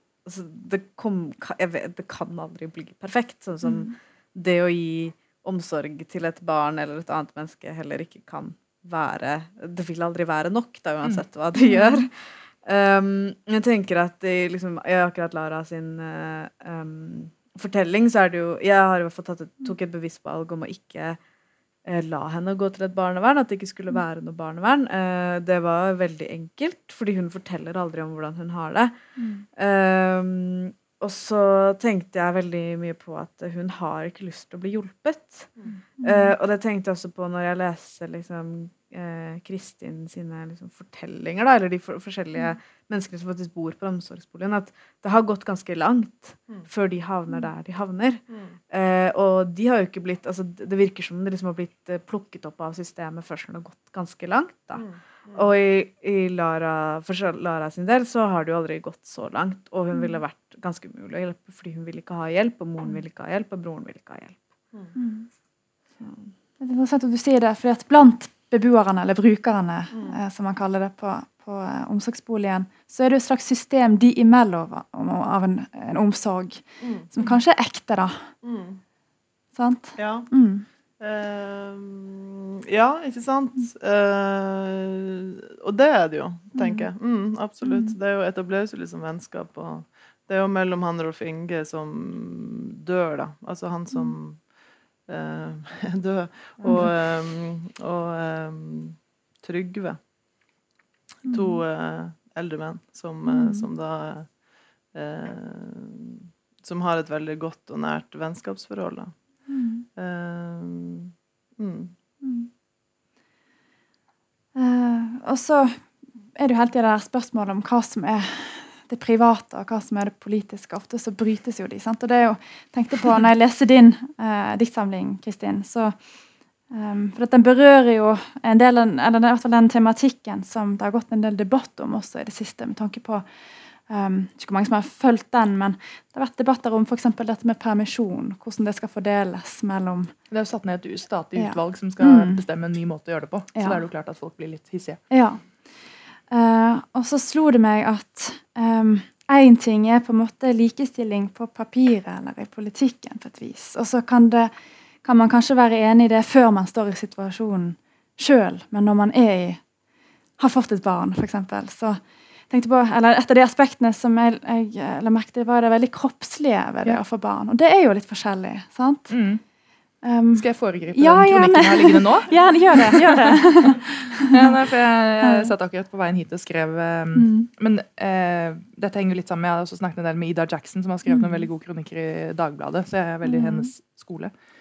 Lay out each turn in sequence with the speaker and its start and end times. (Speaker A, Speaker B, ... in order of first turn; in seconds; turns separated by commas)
Speaker A: 0.2-21.2, Speaker B: 3.6-3.9, Speaker B: 11.6-12.1, Speaker A: 21.8-28.9, Speaker B: 29.2-29.4, Speaker A: 29.6-64.4, Speaker B: 36.0-36.3, Speaker C: 54.8-55.4, Speaker B: 64.9-65.3, Speaker A: 66.0-66.3, Speaker B: 66.6-78.3, Speaker C: 76.8-77.1, Speaker C: 78.4-78.8, Speaker B: 79.5-80.6, Speaker C: 80.0-80.3, Speaker C: 81.0-94.4, Speaker B: 86.5-86.9, Speaker B: 87.6-87.9, Speaker C: 95.1-100.0, Speaker B: 96.6-96.9, Speaker B: 101.2-101.6, Speaker C: 101.2-104.3, Speaker B: 103.2-103.7, Speaker C: 104.9-109.1, Speaker B: 109.5-109.8, Speaker C: 110.0-111.9, Speaker B: 112.2-112.5, Speaker B: 114.5-126.0, Speaker B: 126.7-133.2, Speaker B: 133.8-140.1, Speaker D: 140.3-145.0, Speaker B: 141.3-142.4, Speaker B: 143.5-143.8, Speaker B: 145.1-145.4, Speaker B: 146.3-154.5, Speaker B: 155.0-159.6, Speaker B: 160.4-169.2, Speaker D: 169.1-169.4, Speaker B: 170.0-174.5, Speaker D: 170.3-184.3, Speaker B: 175.2-175.5, Speaker B: 177.1-177.5, Speaker B: 181.1-181.4, Speaker B: 183.2-183.7